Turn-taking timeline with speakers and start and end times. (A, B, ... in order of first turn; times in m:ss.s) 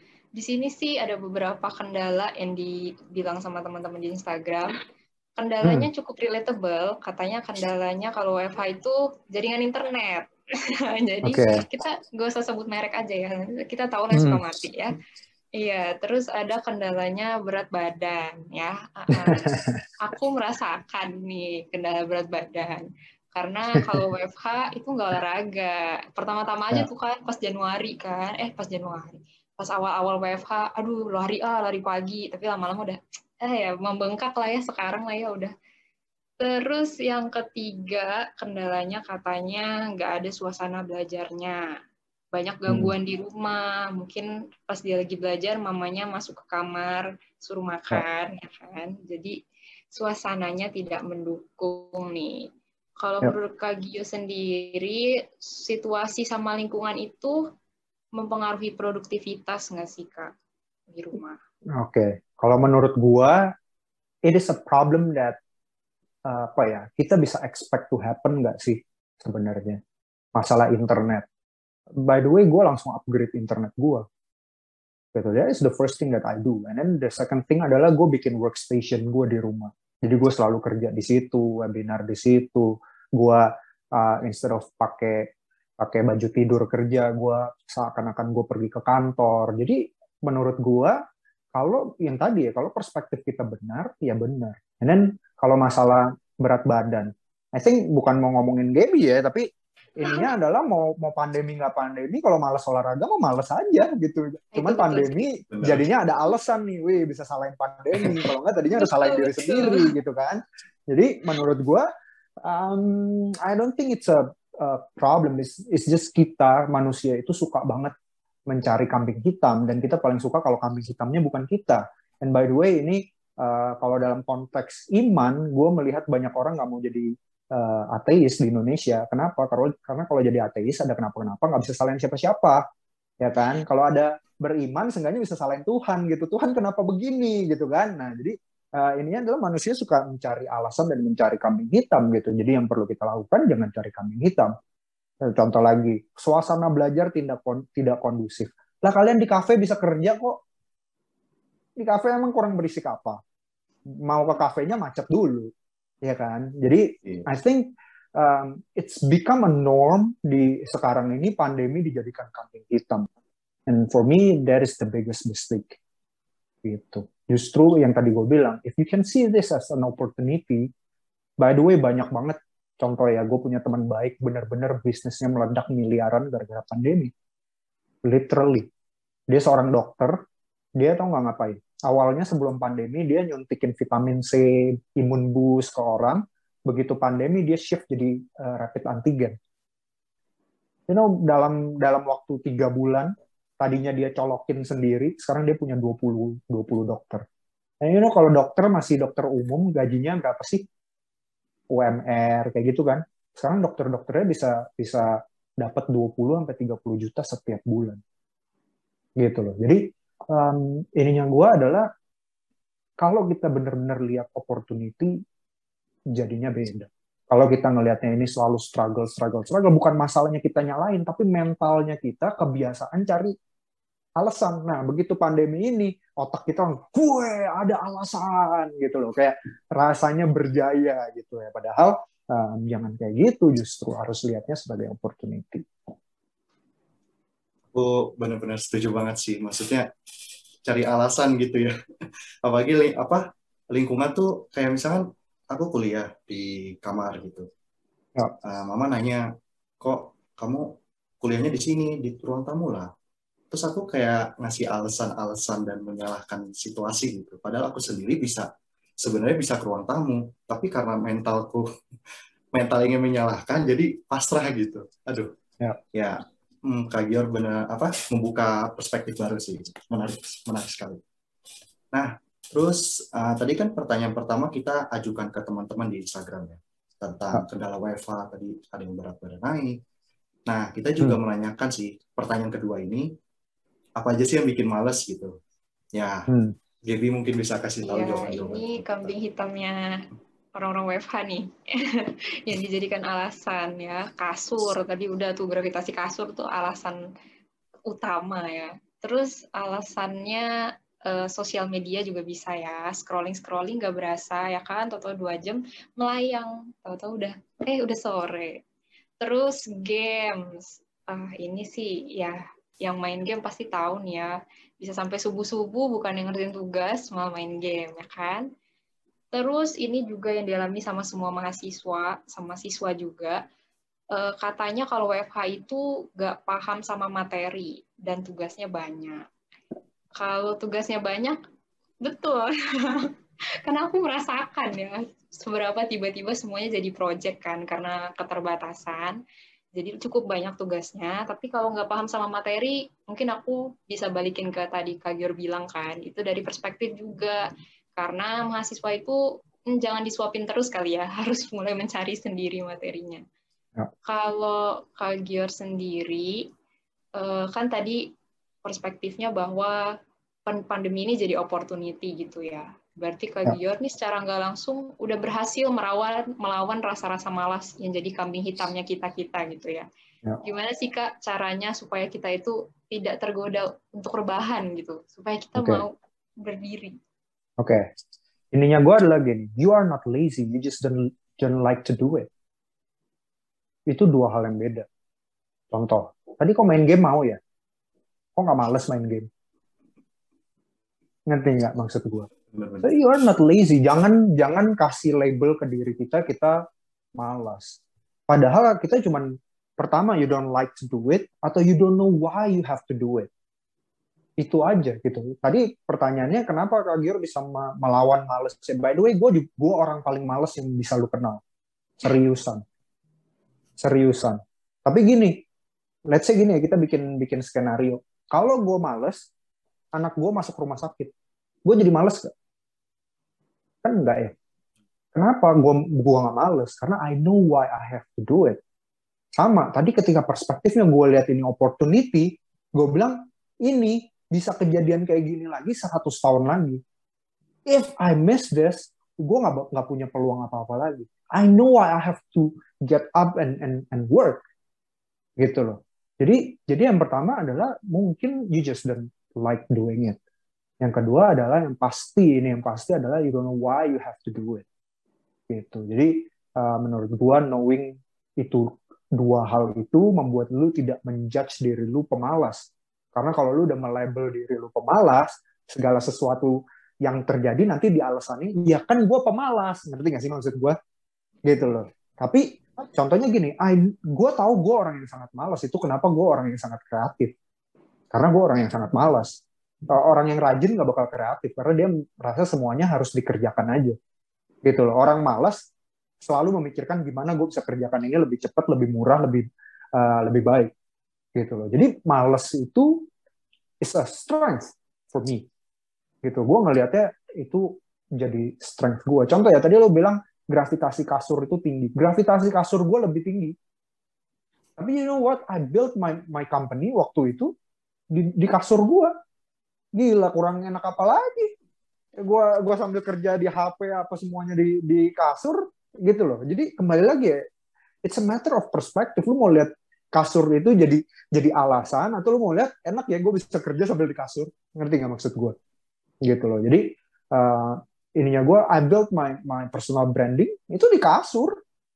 0:00.4-0:04.8 A
0:05.4-0:14.9 A
0:05.6-0:05.9 B
0:11.2-0:11.6 B
0:14.1-0:14.4 B
0:15.5-0:35.5 A
0:19.1-0:19.8 B
0:36.4-0:41.6 A
0:42.3-0:49.4 A
0:42.7-0:42.9 B
0:49.9-0:52.4 A
0:53.0-0:57.4 A
0:58.2-1:00.3 A
1:00.9-1:01.4 A
1:01.8-1:03.5 B
1:04.2-1:05.4 B
1:06.2-1:09.8 B
1:10.3-1:11.2 B
1:12.0-1:14.0 B
1:15.1-1:31.0 B
1:31.5-1:51.8 B
1:44.5-1:45.3 A
1:45.5-1:45.8 C
1:48.7-1:49.9 A
1:52.4-1:57.9 B
1:58.5-2:12.6 B
2:13.2-2:24.5 B
2:25.2-2:30.4 B
2:31.8-2:33.2 B
2:34.0-2:35.5 B
2:36.0-2:43.1 B
2:43.7-2:45.8 B
2:46.6-2:50.7 B
2:51.4-2:57.1 B
2:58.0-2:58.7 B
2:59.3-3:00.2 B
3:00.8-3:09.4 B
3:10.9-3:17.2 B
3:17.8-3:20.6 B
3:21.7-3:28.0 B
3:29.2-3:31.9 B
3:33.0-3:35.2 B
3:36.1-3:43.3 B
3:44.2-3:55.7 B
3:57.7-3:59.9 C
4:00.6-4:01.7 C
4:02.4-4:07.5 C
4:08.4-4:09.2 C
4:09.8-4:12.9 C
4:13.5-4:18.5 C
4:19.0-4:21.7 C
4:22.5-4:25.3 C
4:25.9-4:31.0 C
4:31.9-4:39.8 C
4:40.5-4:43.1 C
4:44.0-4:45.3 C
4:45.9-4:46.3 C
4:46.3-4:46.6 B
4:46.8-4:49.1 C
4:47.8-4:50.0 A
4:50.5-4:57.0 A
4:57.9-5:00.5 A
5:01.0-5:08.6 A
5:09.2-5:18.4 A
5:19.3-5:23.4 A
5:24.1-5:29.2 A
5:30.2-5:31.4 A
5:32.0-5:33.1 A
5:33.6-5:39.2 A
5:39.8-5:47.4 A
5:48.0-5:53.2 A
5:54.0-5:56.4 A
5:57.2-5:58.1 A
5:58.6-5:59.8 A
6:00.5-6:09.9 A
6:10.4-6:17.0 A
6:15.6-6:15.8 B
6:17.6-6:17.8 B
6:18.5-6:22.3 B
6:23.9-6:24.8 B
6:25.7-6:27.4 B
6:28.4-6:29.3 B
6:31.3-6:32.3 B
6:32.5-6:32.9 C
6:32.8-6:36.6 B
6:37.2-6:43.3 B
6:44.4-6:51.4 B
6:52.0-6:52.6 B
6:53.8-6:55.4 B
6:56.1-6:59.2 B
6:59.9-7:01.1 B
7:01.6-7:02.3 B
7:03.8-7:04.3 B
7:05.1-7:08.6 B
7:09.4-7:16.8 B
7:17.6-7:24.4 B
7:25.4-7:30.2 B
7:30.8-7:34.6 B
7:35.5-7:50.8 B
7:51.4-7:57.3 B
7:58.1-8:04.0 B
8:04.6-8:05.6 B
8:06.2-8:10.7 B
8:11.4-8:13.1 B
8:13.8-8:15.5 B
8:16.2-8:23.6 B
8:24.8-8:27.5 B
8:28.1-8:29.1 B
8:30.0-8:31.5 B
8:32.2-8:37.4 B
8:38.0-8:45.6 B
8:46.2-8:51.6 B